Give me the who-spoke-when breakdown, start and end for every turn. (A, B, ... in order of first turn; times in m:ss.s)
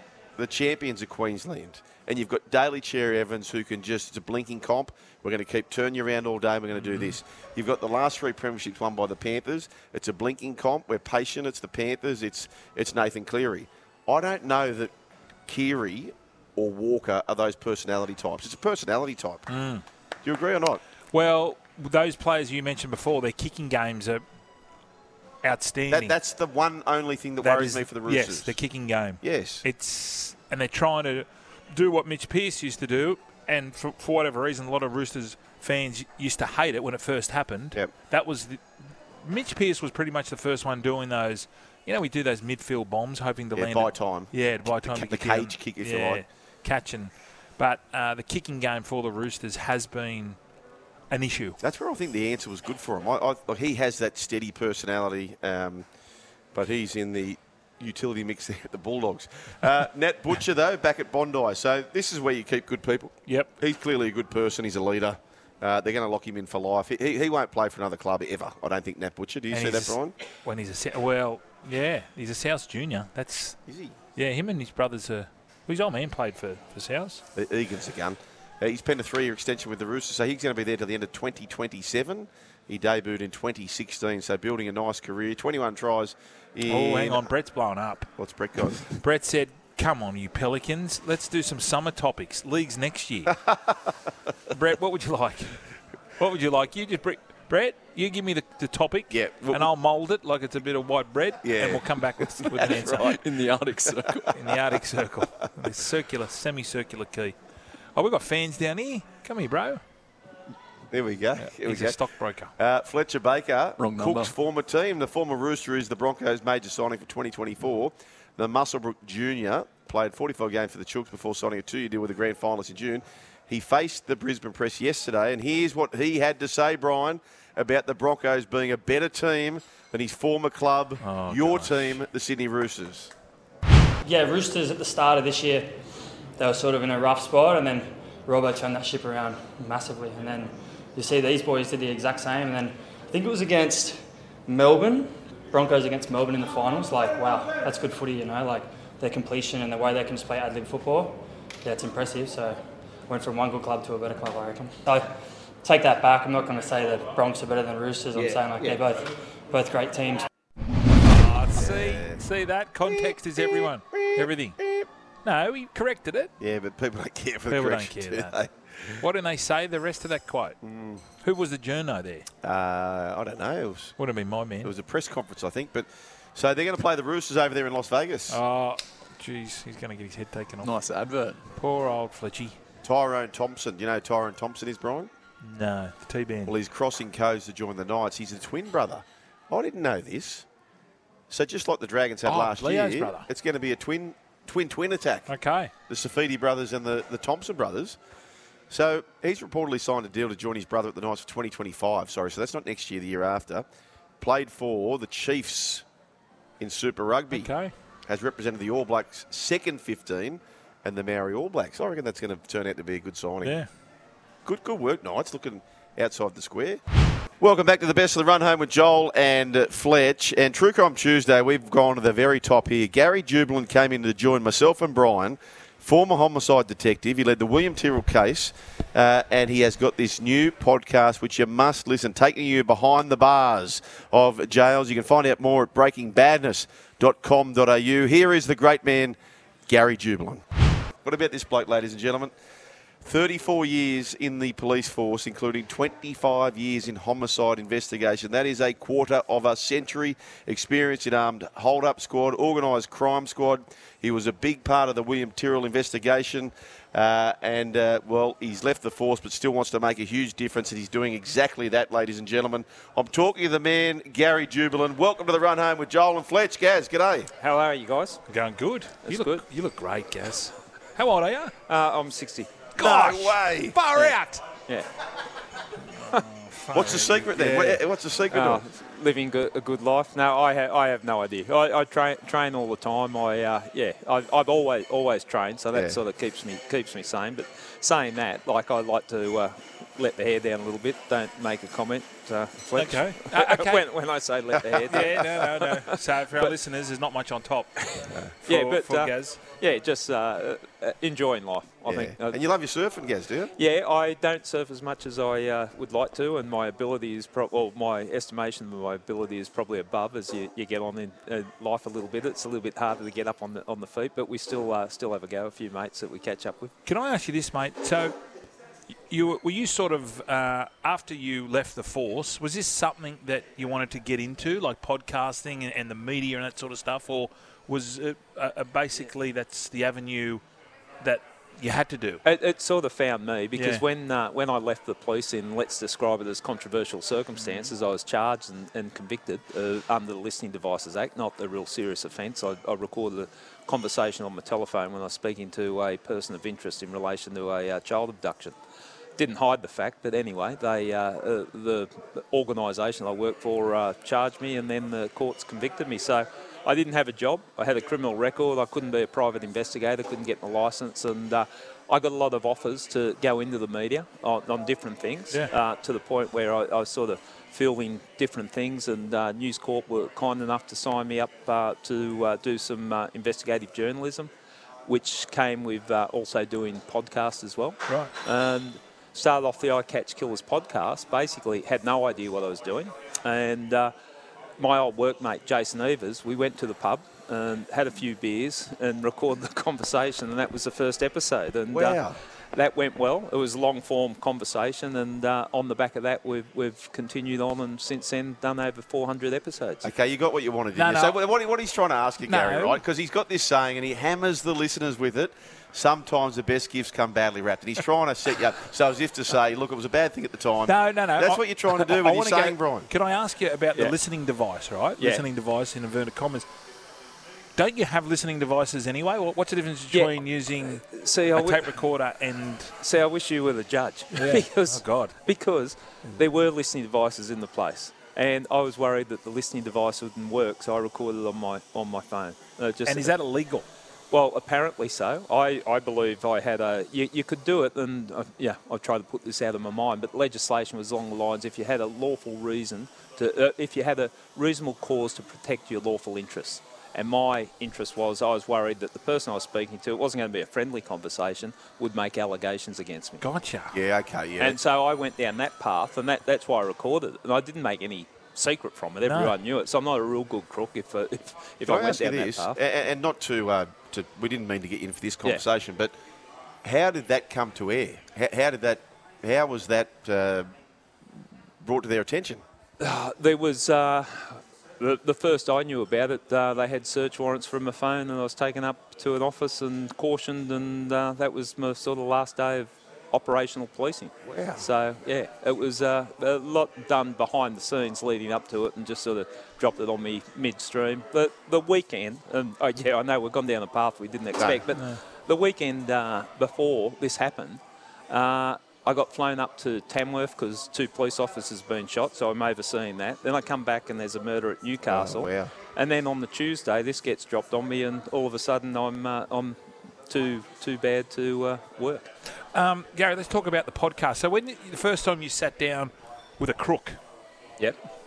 0:00.4-0:14.9 A
0:06.9-0:07.1 B
0:15.5-0:19.4 A
0:19.5-0:19.8 B
0:20.2-0:20.8 A
0:21.1-0:24.2 B
0:25.4-0:26.1 B
0:25.9-0:28.6 A
0:27.4-0:38.6 B
0:29.2-0:29.6 A
0:39.2-0:50.4 B
0:43.5-0:46.2 A
0:51.1-0:51.6 B
0:51.6-0:55.9 A
0:56.5-1:10.1 A
1:09.5-1:13.6 B
1:13.6-1:14.0 A
1:14.2-1:17.2 B
1:17.3-1:27.3 A
1:26.7-1:28.1 B
1:28.2-1:28.9 A
1:28.9-1:33.4 B
1:34.5-1:35.6 B
1:36.2-1:43.2 B
1:39.1-1:39.7 A
1:41.4-1:43.2 A
1:42.9-1:44.3 C
1:44.0-1:44.3 A
1:44.3-1:47.4 B
1:48.0-1:49.8 B
1:50.9-1:52.0 A
1:51.4-1:52.5 B
1:52.6-2:13.1 A
1:53.8-1:54.3 C
2:11.0-2:12.0 B
2:14.0-2:15.8 D
2:16.4-2:40.3 D
2:38.2-2:38.8 A
2:41.0-2:44.6 B
2:41.6-2:42.2 A
2:43.9-2:44.9 A
2:45.2-2:46.3 B
2:46.4-2:49.0 A
2:47.5-2:48.4 B
2:48.9-2:50.6 B
2:50.6-2:51.0 A
2:51.2-2:52.3 B
2:52.4-2:53.9 A
2:54.0-2:54.7 B
2:54.6-2:58.4 A
2:58.3-3:00.7 B
3:00.6-3:01.4 C
3:01.5-3:02.6 B
3:02.8-3:05.1 A
3:05.4-3:06.5 B
3:06.4-3:10.4 A
3:11.3-3:15.3 A
3:12.2-3:13.3 B
3:15.3-3:15.7 B
3:15.9-3:18.0 A
3:18.7-3:23.6 A
3:24.2-3:25.8 A
3:26.6-3:27.5 A
3:27.3-3:27.7 B
3:28.1-3:33.6 A
3:34.4-3:36.8 A
3:37.4-4:00.4 A
4:01.0-4:02.3 A
4:03.0-4:27.3 A
4:27.4-4:28.2 E
4:28.3-4:31.5 B
4:29.0-4:29.4 E
4:31.7-4:32.7 E
4:32.7-4:34.5 B
4:32.8-4:33.8 A
4:35.9-4:37.8 B
4:36.7-4:38.6 A
4:38.3-4:56.5 E
4:45.7-4:46.0 A
4:52.7-4:53.8 B
4:54.7-4:55.2 A
4:54.9-4:59.4 B
4:58.4-5:02.4 E
5:01.8-5:03.5 A
5:03.6-5:16.7 E
5:16.8-5:18.2 B
5:19.1-5:30.4 B
5:31.0-5:32.2 B
5:32.2-5:48.5 E
5:33.5-5:33.8 B
5:37.4-5:37.7 B
5:49.2-6:14.3 E
6:14.8-6:23.9 E
6:24.6-6:32.0 E
6:31.7-6:32.2 A
6:32.5-6:39.9 E
6:39.8-6:52.9 A
6:40.7-6:41.1 B
6:42.2-6:42.8 B
6:50.7-6:56.4 B
6:55.0-6:55.2 E
6:57.6-7:02.8 B
6:59.9-7:01.7 E
7:02.8-7:13.2 E
7:04.1-7:05.2 B
7:12.8-7:13.7 B
7:14.1-7:33.2 E
7:33.2-7:33.8 B
7:33.7-7:34.6 A
7:34.4-7:42.6 E
7:39.0-7:39.4 B
7:41.6-7:45.9 A
7:46.6-7:50.5 A
7:51.6-7:52.4 A
7:52.8-8:32.1 E
8:04.2-8:04.6 A
8:24.8-8:25.5 A
8:32.5-8:37.0 B